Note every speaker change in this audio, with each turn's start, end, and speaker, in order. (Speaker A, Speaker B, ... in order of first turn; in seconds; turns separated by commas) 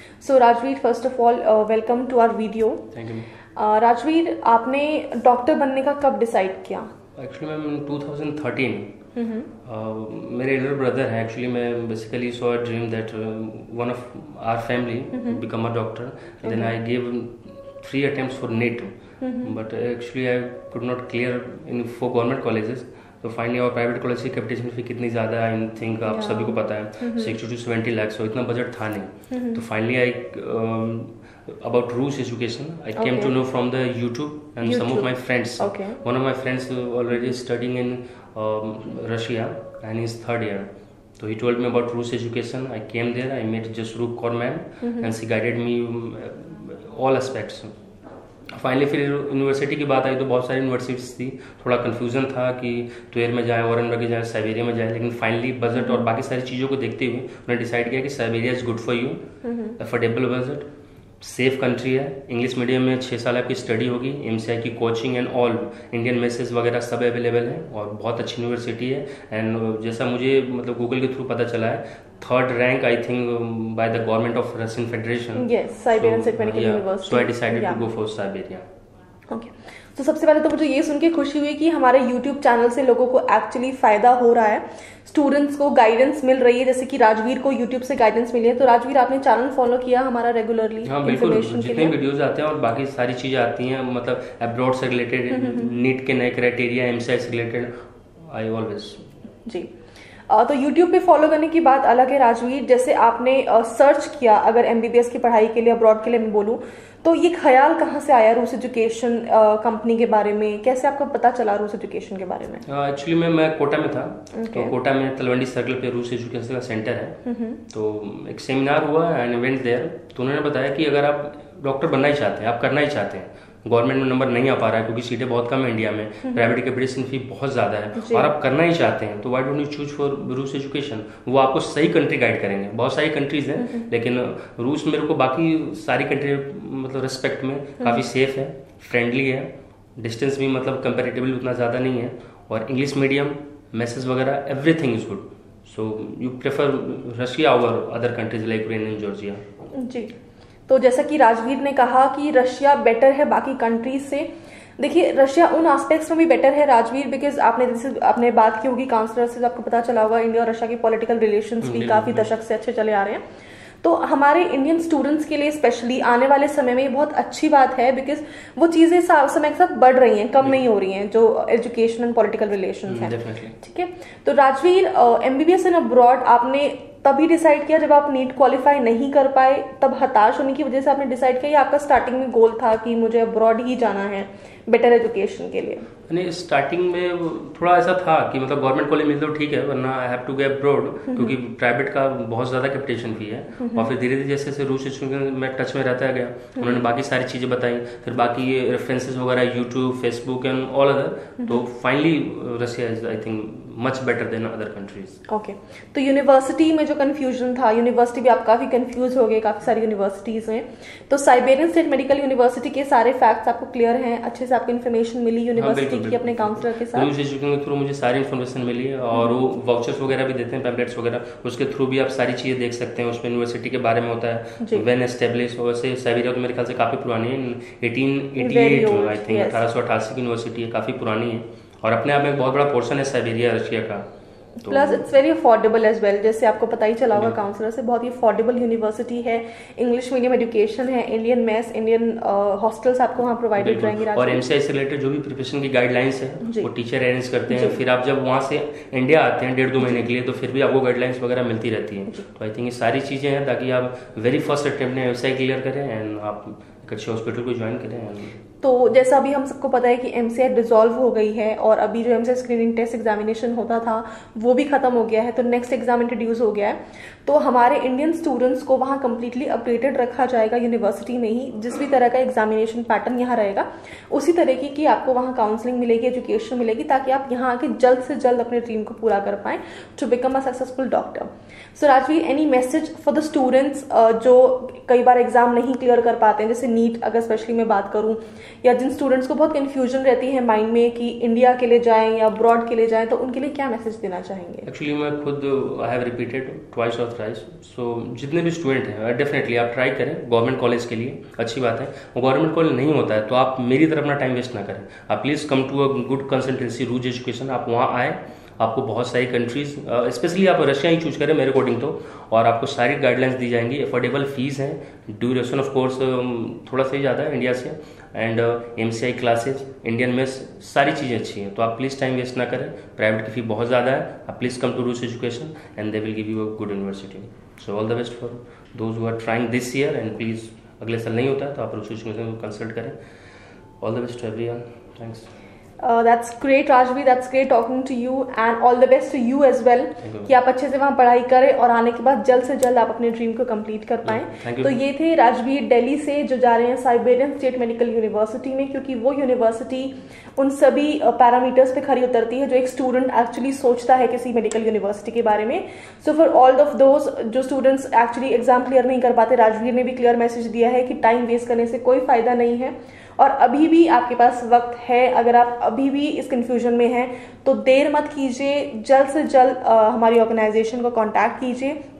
Speaker A: 0.2-2.9, Speaker B: 2.9-3.3, Speaker A: 3.5-6.9, Speaker B: 7.2-8.9, Speaker A: 9.1-9.5, Speaker B: 9.6-47.7, Speaker A: 16.4-16.7, Speaker A: 19.2-19.5, Speaker A: 26.1-27.4, Speaker A: 29.3-29.6, Speaker A: 33.0-33.3, Speaker A: 34.6-36.0, Speaker A: 44.8-45.1, Speaker B: 48.5-59.2, Speaker A: 55.7-56.0, Speaker A: 59.4-59.8, Speaker B: 59.8-60.7, Speaker B: 61.2-78.7, Speaker A: 75.3-77.9, Speaker A: 79.3-92.0, Speaker B: 90.8-97.7, Speaker A: 95.3-95.7, Speaker B: 98.2-99.1, Speaker A: 100.3-112.7, Speaker B: 112.7-149.4, Speaker A: 114.3-114.7, Speaker A: 117.2-117.6, Speaker A: 128.0-128.3, Speaker A: 133.6-133.8, Speaker A: 137.8-138.0, Speaker A: 149.7-150.1, Speaker A: 150.7-163.2, Speaker B: 161.6-162.3, Speaker A: 163.8-185.9, Speaker B: 172.9-173.6, Speaker B: 186.1-205.2, Speaker A: 191.1-191.3, Speaker A: 193.6-193.9, Speaker A: 196.6-196.8, Speaker A: 205.3-217.1, Speaker B: 215.6-234.1, Speaker A: 219.1-219.4, Speaker A: 224.6-224.8, Speaker A: 228.4-229.6, Speaker B: 234.6-235.1, Speaker A: 234.6-244.4, Speaker B: 243.6-258.4, Speaker A: 246.4-246.7, Speaker A: 247.5-247.8, Speaker A: 258.6-294.7, Speaker B: 294.6-332.9, Speaker B: 333.8-335.3, Speaker A: 335.8-371.8, Speaker B: 340.0-340.3, Speaker B: 344.0-344.7